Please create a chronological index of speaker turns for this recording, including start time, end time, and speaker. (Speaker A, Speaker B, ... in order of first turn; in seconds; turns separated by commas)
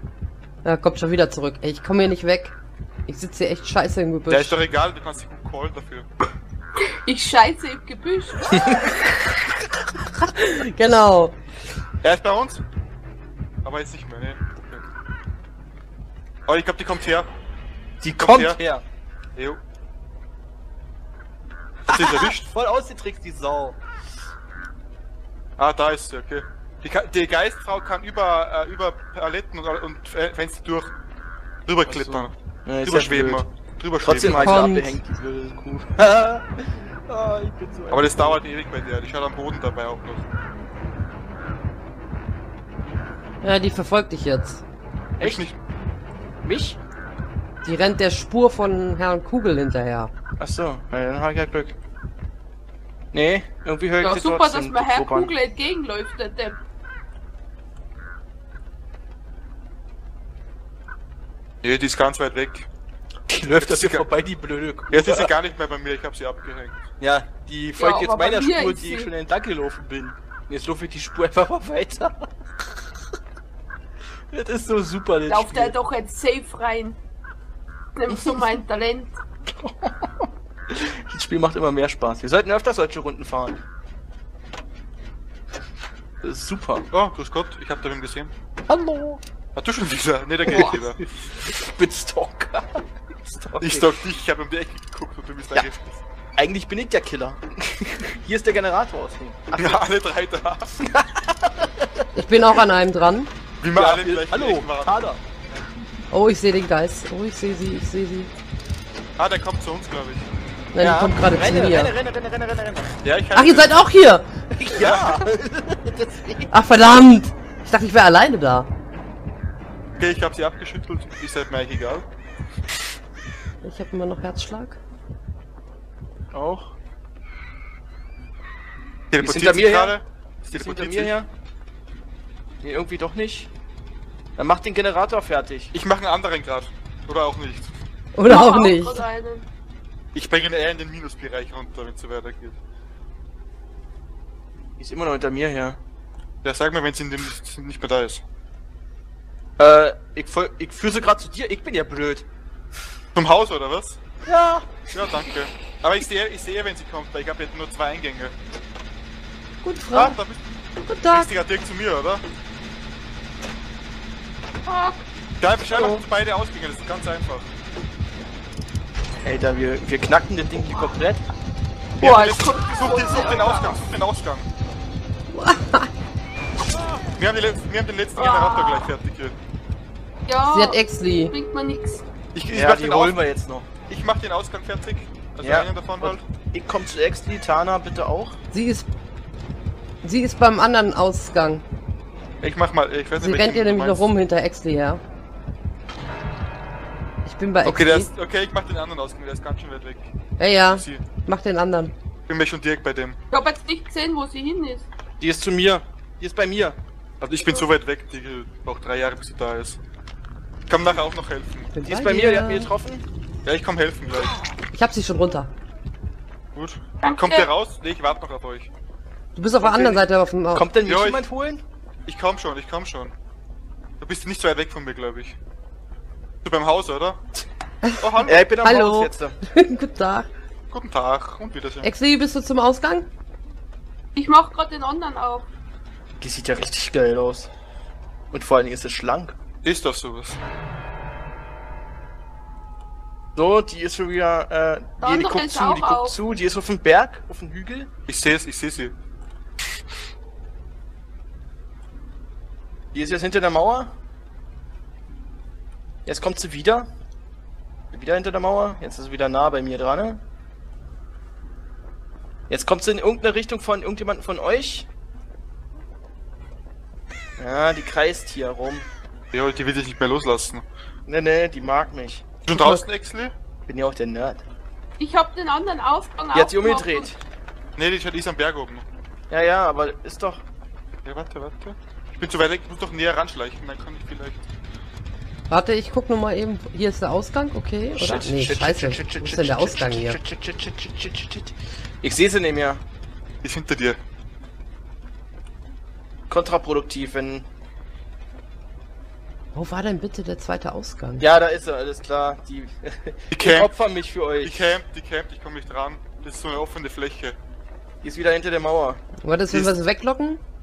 Speaker A: 0.6-2.5, Speaker A: 3.1-4.6, Speaker B: 4.3-6.1, Speaker C: 7.0-8.6, Speaker D: 8.6-8.9, Speaker A: 10.3-11.4, Speaker B: 12.0-12.6, Speaker B: 13.6-14.9, Speaker B: 16.5-17.3, Speaker D: 18.0-18.8, Speaker B: 18.1-18.6, Speaker B: 19.4-19.6, Speaker D: 21.9-23.8, Speaker B: 21.9-22.5, Speaker B: 25.6-30.9, Speaker B: 31.7-34.7, Speaker D: 31.9-33.5, Speaker D: 34.0-38.4, Speaker A: 34.3-35.0, Speaker B: 37.9-40.3, Speaker A: 43.4-44.6, Speaker D: 45.2-45.5, Speaker B: 45.2-45.6, Speaker D: 46.4-46.8, Speaker A: 47.6-50.1, Speaker D: 50.4-51.8, Speaker D: 53.1-55.3, Speaker C: 54.0-56.6, Speaker B: 61.6-62.7, Speaker D: 63.3-65.3, Speaker B: 63.6-64.0, Speaker B: 64.9-66.8, Speaker D: 67.0-72.3, Speaker C: 67.8-69.1, Speaker D: 74.3-75.8, Speaker C: 75.3-77.0, Speaker C: 78.0-79.2, Speaker D: 78.1-78.5, Speaker D: 79.6-83.6, Speaker D: 86.2-86.8, Speaker B: 86.9-88.3, Speaker D: 88.7-89.2, Speaker B: 89.5-91.0, Speaker D: 90.5-93.9, Speaker B: 93.6-96.0, Speaker D: 96.4-99.8, Speaker B: 99.6-100.8, Speaker D: 100.8-102.0, Speaker A: 102.1-103.3, Speaker B: 103.6-105.0, Speaker D: 103.8-105.2, Speaker A: 106.1-108.3, Speaker B: 109.2-110.3, Speaker A: 110.7-111.9, Speaker D: 110.8-113.0, Speaker B: 113.0-113.8, Speaker A: 113.3-114.2, Speaker D: 114.5-116.5, Speaker B: 114.8-115.2, Speaker A: 116.5-118.7, Speaker B: 120.0-122.1, Speaker A: 123.6-124.8, Speaker D: 126.3-126.7, Speaker B: 129.1-131.2, Speaker D: 129.2-131.3, Speaker D: 132.6-133.5, Speaker D: 134.4-135.7, Speaker B: 135.7-137.7, Speaker A: 138.2-139.0, Speaker C: 138.3-139.5, Speaker B: 140.1-142.6, Speaker D: 144.8-145.8, Speaker B: 146.4-148.2, Speaker D: 149.6-152.3, Speaker B: 153.2-154.0, Speaker D: 154.3-154.8, Speaker B: 154.9-158.3, Speaker A: 159.6-160.2, Speaker B: 159.9-160.4, Speaker A: 160.8-161.3, Speaker B: 161.1-162.2, Speaker C: 164.7-165.0, Speaker B: 165.4-167.5, Speaker D: 169.2-171.3, Speaker B: 172.0-174.5, Speaker C: 172.0-173.8, Speaker A: 175.3-175.9, Speaker B: 177.2-179.4, Speaker C: 178.2-179.0, Speaker C: 180.3-182.0, Speaker A: 180.5-181.3, Speaker B: 182.3-183.2, Speaker D: 182.5-183.7, Speaker B: 183.8-186.3, Speaker D: 185.4-188.4, Speaker A: 188.5-188.9, Speaker A: 190.0-191.7, Speaker B: 192.4-194.1, Speaker A: 193.2-195.0, Speaker A: 197.2-198.1, Speaker B: 197.6-200.1, Speaker A: 200.4-201.9, Speaker B: 200.7-201.0, Speaker B: 202.3-203.2, Speaker C: 203.3-204.9, Speaker D: 205.2-206.8, Speaker B: 207.2-209.8, Speaker B: 210.7-211.7, Speaker A: 211.7-212.7, Speaker D: 211.8-213.1, Speaker B: 213.4-214.4, Speaker A: 214.7-215.5, Speaker B: 216.6-218.7, Speaker C: 217.0-217.5, Speaker A: 219.3-220.7, Speaker D: 219.6-221.6, Speaker B: 220.8-221.2, Speaker B: 222.1-223.1, Speaker B: 224.0-225.4, Speaker B: 226.4-227.2, Speaker B: 228.0-228.5, Speaker D: 228.3-229.4, Speaker A: 228.6-230.3, Speaker B: 230.7-231.9, Speaker A: 231.8-233.1, Speaker C: 234.2-235.5, Speaker D: 236.2-237.5, Speaker D: 238.3-239.3, Speaker B: 239.6-240.4, Speaker D: 243.4-247.9, Speaker C: 245.0-246.2, Speaker B: 248.1-249.0, Speaker D: 252.9-253.9, Speaker D: 256.1-256.9, Speaker D: 257.9-260.2, Speaker D: 262.5-264.9, Speaker D: 267.4-268.9, Speaker B: 269.3-270.6, Speaker D: 271.1-272.8, Speaker B: 272.5-273.4, Speaker D: 273.7-274.4, Speaker C: 275.0-277.2, Speaker D: 276.3-277.2, Speaker B: 277.8-278.9, Speaker D: 279.3-280.4, Speaker B: 281.1-284.4, Speaker A: 285.5-290.2, Speaker D: 287.9-292.8, Speaker B: 293.4-294.0, Speaker D: 296.3-297.5, Speaker A: 299.5-301.2, Speaker D: 301.2-304.8, Speaker B: 303.3-303.7, Speaker B: 304.4-307.4, Speaker D: 308.0-309.0, Speaker A: 309.2-310.4